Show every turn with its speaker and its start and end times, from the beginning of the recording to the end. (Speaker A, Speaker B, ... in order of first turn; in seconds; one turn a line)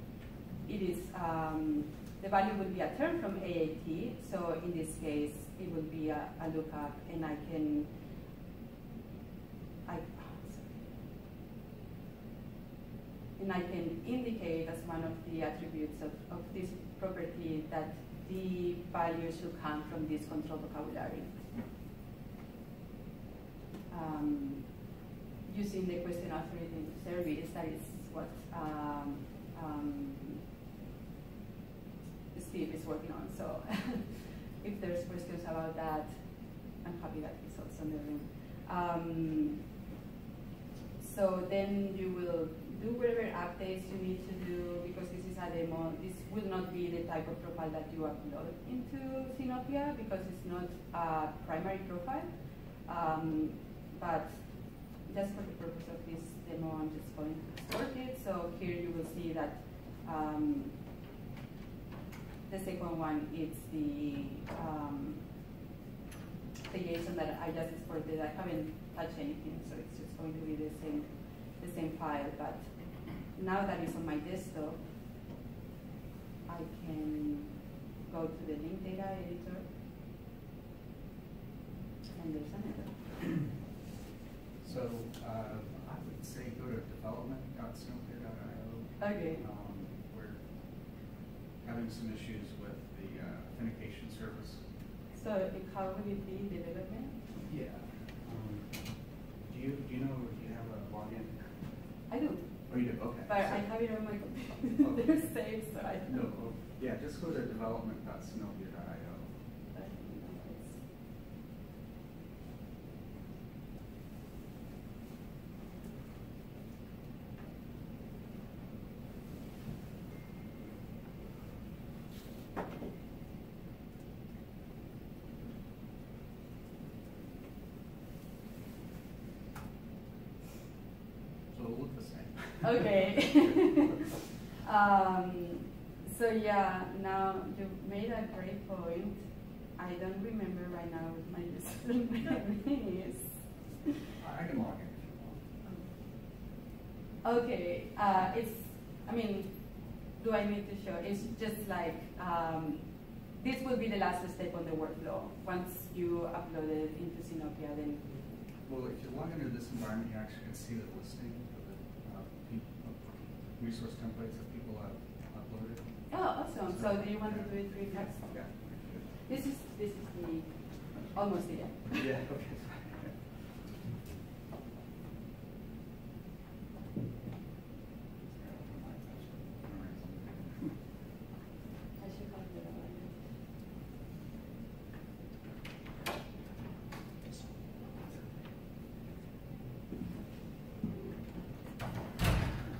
Speaker A: 0.7-7.9
Speaker A: 9.8-11.0
Speaker A: 13.4-21.4
Speaker A: 23.9-24.7
Speaker A: 25.4-30.4
Speaker A: 32.3-36.2
Speaker A: 36.8-39.6
Speaker A: 41.0-52.3
Speaker A: 52.8-60.8
Speaker A: 62.5-65.2
Speaker A: 66.7-71.1
Speaker A: 71.6-74.8
Speaker A: 76.5-77.5
Speaker A: 78.1-79.7
Speaker A: 82.1-83.4
Speaker B: 84.6-90.4
Speaker A: 89.0-89.4
Speaker B: 91.6-94.6
Speaker A: 95.2-97.2
Speaker B: 97.3-101.7
Speaker A: 102.1-106.2
Speaker B: 102.7-104.1
Speaker B: 104.7-109.3
Speaker A: 109.7-110.8
Speaker B: 131.5-134.0
Speaker A: 132.6-134.1
Speaker A: 134.6-139.2
Speaker A: 139.8-143.3
Speaker B: 144.2-145.4
Speaker A: 147.2-149.6
Speaker A: 150.1-158.0
Speaker B: 158.0-169.3
Speaker A: 166.1-168.5
Speaker A: 169.2-172.0
Speaker B: 171.9-173.4
Speaker B: 178.2-180.8
Speaker A: 182.0-183.3
Speaker B: 187.3-188.3